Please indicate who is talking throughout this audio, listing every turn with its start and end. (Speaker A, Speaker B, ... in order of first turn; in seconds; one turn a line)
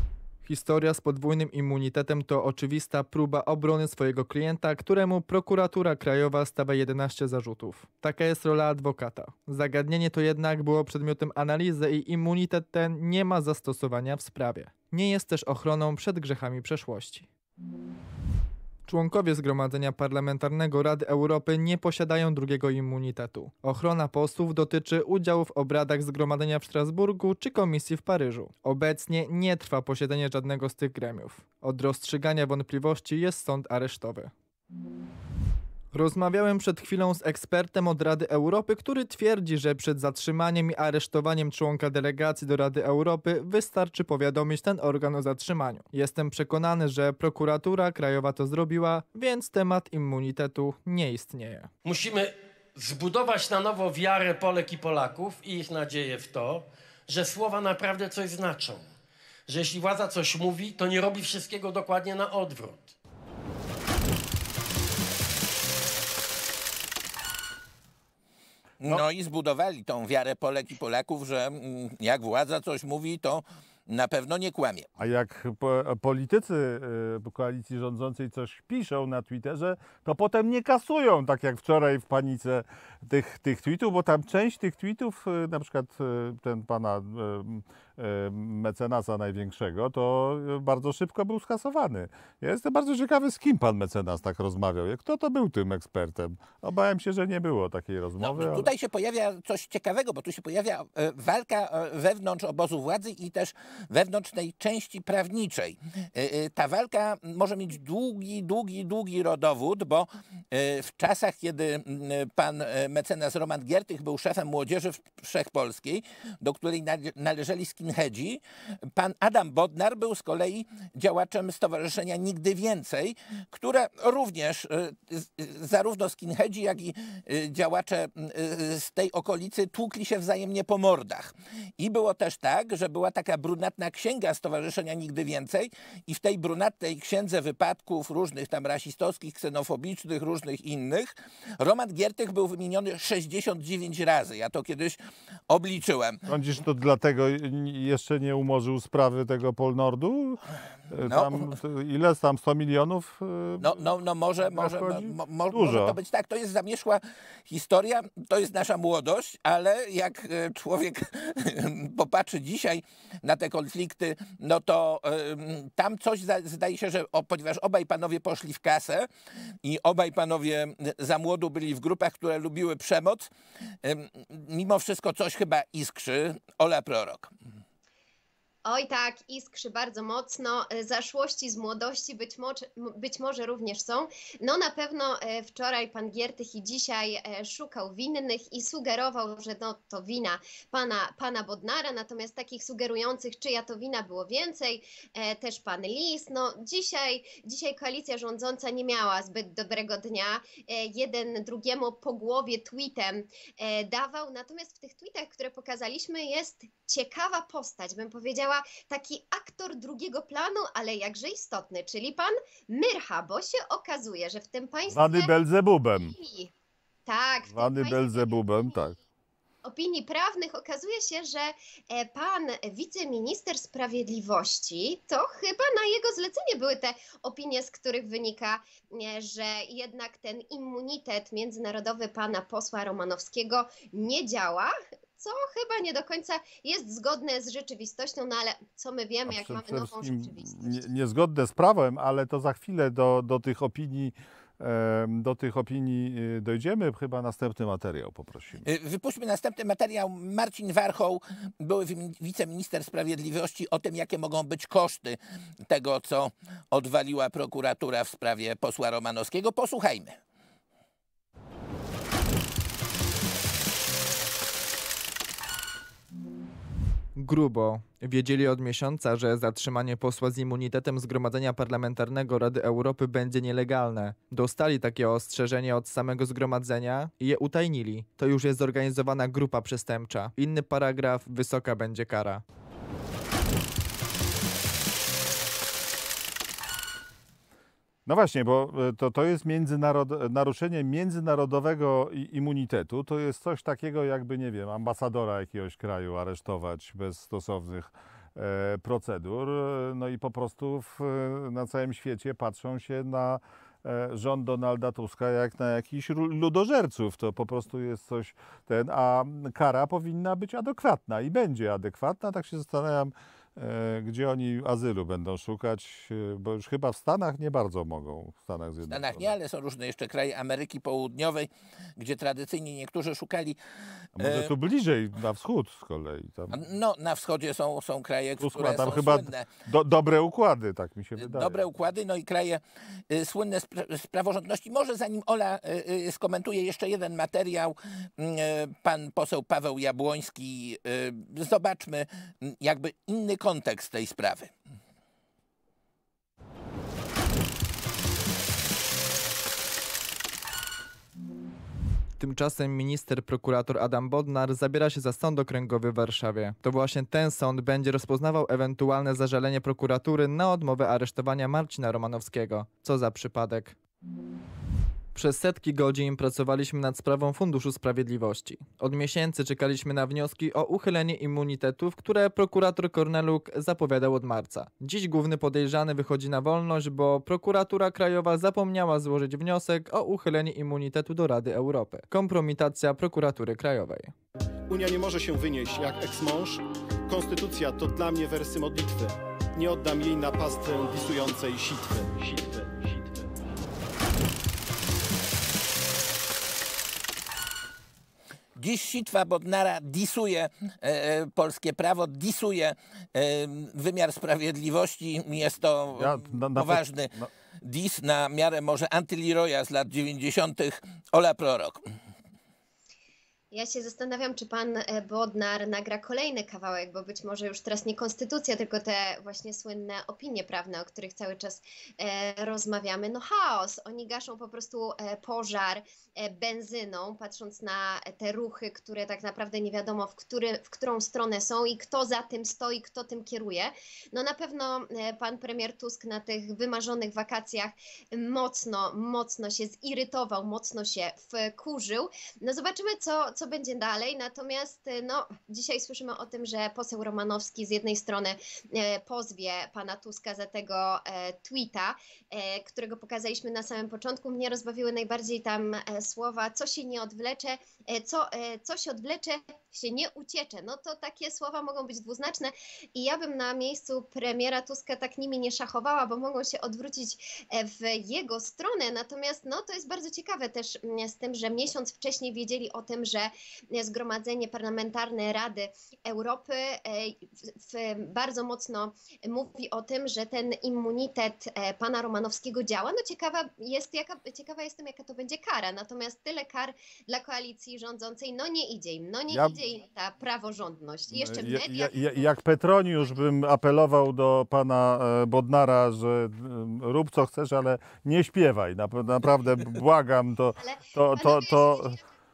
Speaker A: 0.4-17.3
Speaker A: 18.9-34.3
Speaker A: 35.9-51.7
Speaker B: 51.8-58.9
Speaker B: 59.5-62.9
Speaker C: 68.8-74.9
Speaker D: 75.0-98.7
Speaker C: 98.2-118.4
Speaker C: 118.9-146.2
Speaker D: 146.3-150.4
Speaker D: 150.9-153.8
Speaker C: 151.1-151.5
Speaker C: 153.6-169.1
Speaker D: 154.4-156.0
Speaker C: 169.6-173.3
Speaker C: 173.8-177.3
Speaker E: 178.6-215.3
Speaker D: 214.9-216.1
Speaker E: 216.1-216.5
Speaker E: 217.1-218.7
Speaker D: 217.5-219.0
Speaker E: 219.6-240.8
Speaker D: 239.3-248.6
Speaker C: 248.6-255.2
Speaker C: 255.7-260.2
Speaker A: 267.1-282.4
Speaker D: 288.1-319.3
Speaker C: 318.9-323.6
Speaker D: 324.2-326.6
Speaker C: 324.2-324.5
Speaker C: 326.5-329.5
Speaker D: 328.4-331.6
Speaker C: 331.2-344.5
Speaker A: 352.2-363.8
Speaker A: 365.1-384.1
Speaker F: 384.7-392.7
Speaker C: 398.6-407.1
Speaker D: 405.9-407.3
Speaker C: 407.6-411.8
Speaker E: 413.5-492.3
Speaker D: 489.3-489.6
Speaker D: 491.1-502.0
Speaker E: 500.6-502.1